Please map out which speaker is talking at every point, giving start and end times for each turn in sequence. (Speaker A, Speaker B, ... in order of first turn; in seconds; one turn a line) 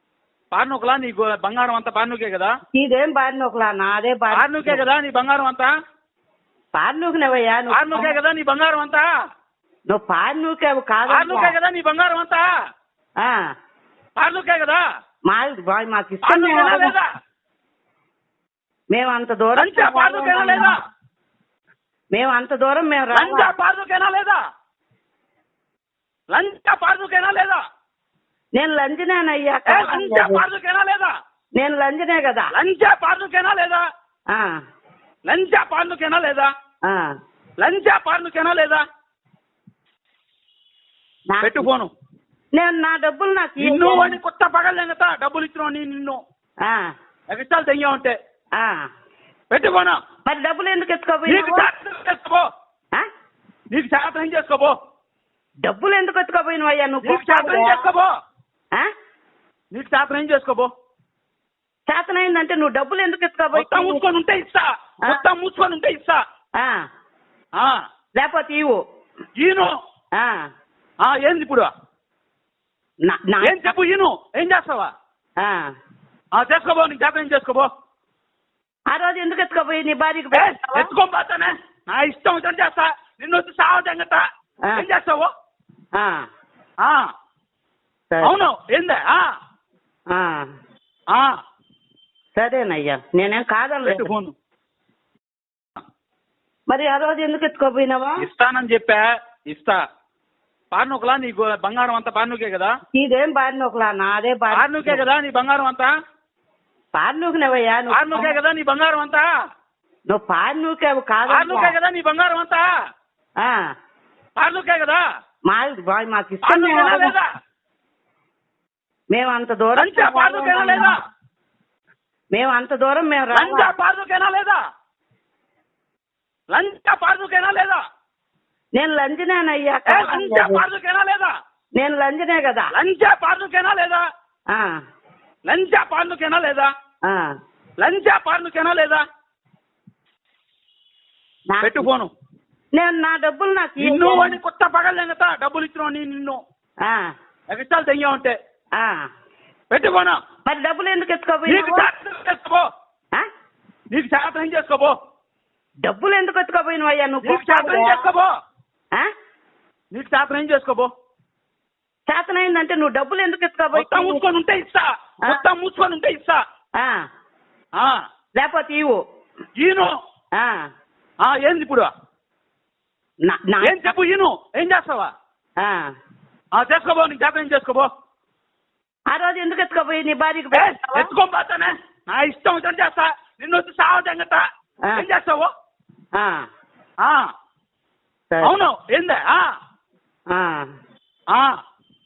Speaker A: 0.5-2.5
Speaker B: 2.7-4.8
Speaker A: 4.3-5.7
Speaker B: 6.7-8.1
Speaker A: 7.7-9.1
Speaker B: 9.9-11.5
Speaker A: 11.1-12.4
Speaker A: 14.2-14.8
Speaker B: 15.3-16.9
Speaker A: 16.2-17.1
Speaker B: 18.9-20.7
Speaker A: 19.6-20.8
Speaker B: 22.1-23.5
Speaker A: 23.1-24.4
Speaker A: 26.3-27.6
Speaker B: 28.6-30.4
Speaker A: 29.7-31.1
Speaker B: 31.6-32.5
Speaker A: 32.5-33.8
Speaker A: 35.3-36.5
Speaker A: 37.6-38.8
Speaker B: 41.3-41.6
Speaker A: 41.4-41.9
Speaker B: 42.5-44.2
Speaker A: 43.6-46.2
Speaker A: 47.3-48.1
Speaker B: 48.6-48.8
Speaker A: 49.5-50.0
Speaker B: 50.2-51.7
Speaker A: 51.3-52.4
Speaker A: 53.7-54.7
Speaker B: 55.6-57.8
Speaker A: 57.0-58.1
Speaker A: 59.7-60.7
Speaker B: 61.9-64.0
Speaker A: 63.5-66.2
Speaker B: 68.2-68.8
Speaker A: 69.4-69.7
Speaker A: 71.0-71.7
Speaker B: 73.0-73.5
Speaker A: 73.4-74.9
Speaker B: 75.4-75.6
Speaker A: 76.3-77.7
Speaker B: 78.9-80.9
Speaker A: 80.3-84.2
Speaker A: 84.8-85.3
Speaker B: 86.0-86.2
Speaker A: 88.2-89.2
Speaker B: 90.1-90.4
Speaker B: 92.3-94.1
Speaker A: 93.8-94.3
Speaker B: 96.7-98.2
Speaker A: 98.2-99.8
Speaker A: 100.7-102.7
Speaker B: 102.9-105.0
Speaker A: 104.5-105.9
Speaker B: 107.0-108.3
Speaker A: 107.9-109.3
Speaker B: 110.1-111.7
Speaker A: 111.3-112.6
Speaker A: 114.4-115.0
Speaker B: 115.5-117.1
Speaker A: 116.4-117.2
Speaker B: 119.1-120.9
Speaker A: 119.8-121.0
Speaker B: 122.3-123.7
Speaker A: 123.3-124.6
Speaker A: 126.5-127.8
Speaker B: 128.8-130.6
Speaker A: 129.9-131.3
Speaker B: 131.8-132.7
Speaker A: 132.7-134.0
Speaker A: 135.5-136.7
Speaker A: 137.8-139.0
Speaker B: 141.5-141.9
Speaker A: 141.6-142.1
Speaker B: 142.7-144.4
Speaker A: 143.8-146.4
Speaker A: 147.5-148.3
Speaker B: 148.8-149.1
Speaker A: 149.7-150.2
Speaker B: 150.4-151.9
Speaker A: 151.5-152.6
Speaker A: 153.9-154.9
Speaker B: 155.8-158.0
Speaker A: 157.2-158.3
Speaker A: 159.9-160.9
Speaker B: 162.1-164.2
Speaker A: 163.7-166.4
Speaker B: 168.4-169.0
Speaker A: 169.6-169.9
Speaker A: 171.2-171.9
Speaker B: 173.2-173.8
Speaker A: 173.6-175.1
Speaker B: 175.6-175.9
Speaker A: 176.5-177.9
Speaker B: 179.1-181.1
Speaker A: 180.5-184.4
Speaker A: 184.9-185.5
Speaker A: 188.4-189.4
Speaker B: 190.3-190.6